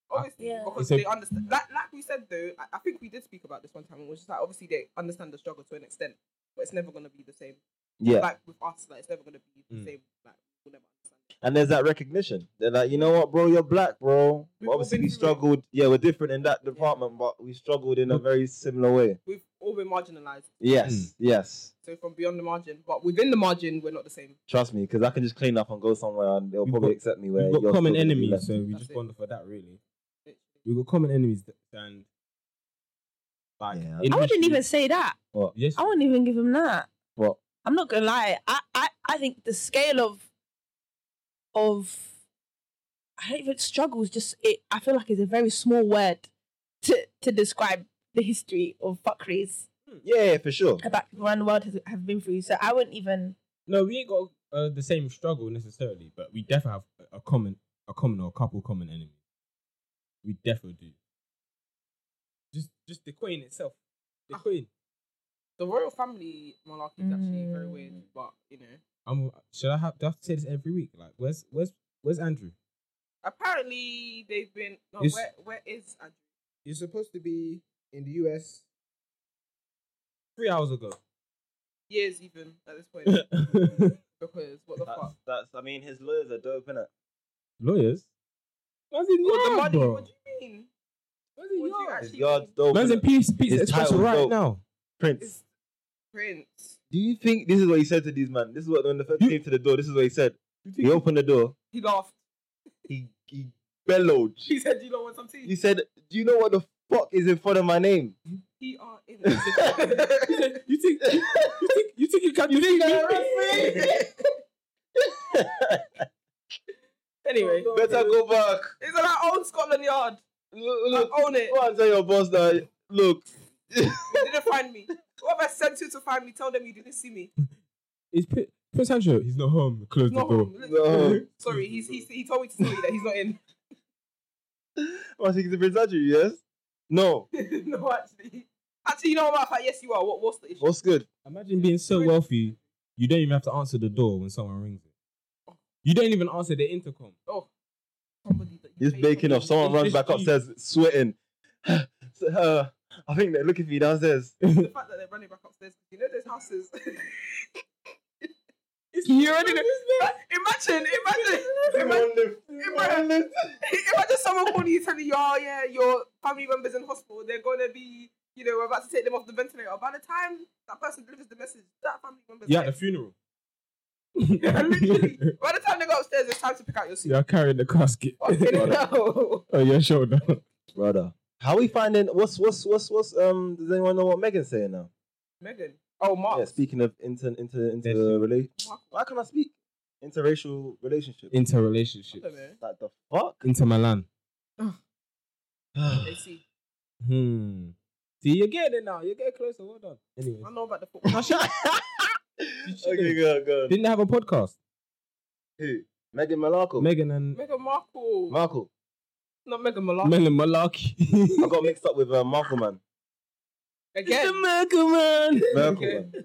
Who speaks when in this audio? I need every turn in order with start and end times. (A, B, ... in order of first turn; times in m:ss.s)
0:00.1-0:11.2 A
0:00.1-0:01.0 B
0:00.4-0:00.8 C
0:08.0-0:08.3 D
0:11.4-0:19.2 D
0:14.6-0:15.4 A
0:16.7-0:17.0 A
0:19.2-0:20.5 A
0:20.6-0:21.7 D
0:20.8-0:21.1 B
0:21.8-0:24.4 A
0:24.5-0:28.5 D
0:26.6-0:29.8 B
0:28.7-0:29.0 A
0:30.2-0:30.5 A
0:30.6-0:32.0 B
0:33.6-0:34.6 B
0:33.7-0:34.2 D
0:34.1-0:35.2 C
0:35.5-0:35.9 B
0:35.7-0:36.9 C
0:37.2-0:37.4 D
0:37.6-0:40.2 C
0:41.5-0:42.1 C
0:43.2-0:46.3 C
0:46.8-0:49.6 C
0:50.0-0:50.8 D
0:50.8-0:53.4 C
0:53.7-0:59.1 B
1:00.2-1:01.0 B
1:02.5-1:03.8 B
1:04.3-1:04.7 B
1:05.6-1:08.8 A
1:07.0-1:08.0 C
1:09.0-1:12.5 B
1:13.2-1:16.2 A
1:16.6-1:18.6 B
1:20.4-1:21.0 B
1:21.9-1:25.1 A
1:23.0-1:24.0 B
1:24.8-1:26.9 D
1:27.6-1:28.1 B
1:28.9-1:30.1 B
1:29.2-1:30.7 A
1:31.4-1:32.0 B
1:31.5-1:32.5 A
1:32.0-1:34.4 D
1:32.7-1:34.6 B
1:35.0-1:35.4 D
1:35.2-1:35.4 A
1:36.1-1:36.8 A
1:36.9-1:41.5 D
1:40.6-1:41.0 B
1:41.7-1:42.2 A
1:42.9-1:44.5 D
1:44.5-1:45.5 A
1:45.4-1:48.2 D
1:48.6-1:50.6 A
1:49.3-1:49.7 D
1:50.3-1:53.7 B
1:51.0-1:51.6 D
1:52.5-1:53.9 D
1:53.0-1:54.3 A
1:55.0-1:56.0 D
1:57.2-1:57.9 A
1:57.3-1:58.2 B
1:57.7-1:58.7 D
1:58.8-2:00.2 A
2:00.5-2:04.3 D
2:00.9-2:01.6 A
2:04.1-2:07.3 A
2:08.1-2:12.0 B
2:10.1-2:13.4 A
2:10.6-2:11.2 D
2:14.8-2:17.3 D
2:17.3-2:20.7 A
2:20.6-2:21.0 D
2:21.2-2:24.9 B
2:21.6-2:22.5 A
2:25.8-2:27.2 B
2:28.2-2:29.6 A
2:28.8-2:34.3 D
2:29.6-2:30.3 B
2:34.4-2:34.7 B
2:34.5-2:37.5 A
2:38.9-2:40.1 B
2:39.0-2:43.1 A
2:41.6-2:43.6 D
2:43.6-2:52.7 A
2:52.5-2:53.1 B
2:54.2-2:55.3 B
2:54.4-2:57.2 A
2:57.0-2:58.7 B
2:58.2-2:59.5 A
2:58.5-2:58.8 D
2:59.5-3:00.4 B
3:00.7-3:04.9 D
3:05.4-3:06.6 A
3:06.3-3:11.3 D
3:07.8-3:08.2 B
3:08.6-3:08.9 A
3:11.3-3:12.3 B
3:12.1-3:12.6 A
3:12.6-3:13.4 D
3:13.4-3:14.1 B
3:15.8-3:16.2 D
3:16.0-3:16.4 A
3:17.0-3:20.5 B
3:20.4-3:21.2 A
3:21.0-3:21.5 B
3:21.4-3:21.7 D
3:22.4-3:23.8 D
3:22.6-3:24.6 B
3:25.6-3:26.9 D
3:26.8-3:27.4 B
3:27.3-3:28.4 A
3:28.3-3:28.7 D
3:29.4-3:30.2 A
3:30.0-3:31.5 B
3:31.4-3:32.8 D
3:33.9-3:34.4 A
3:34.0-3:35.8 B
3:35.5-3:36.1 D
3:35.5-3:36.1 A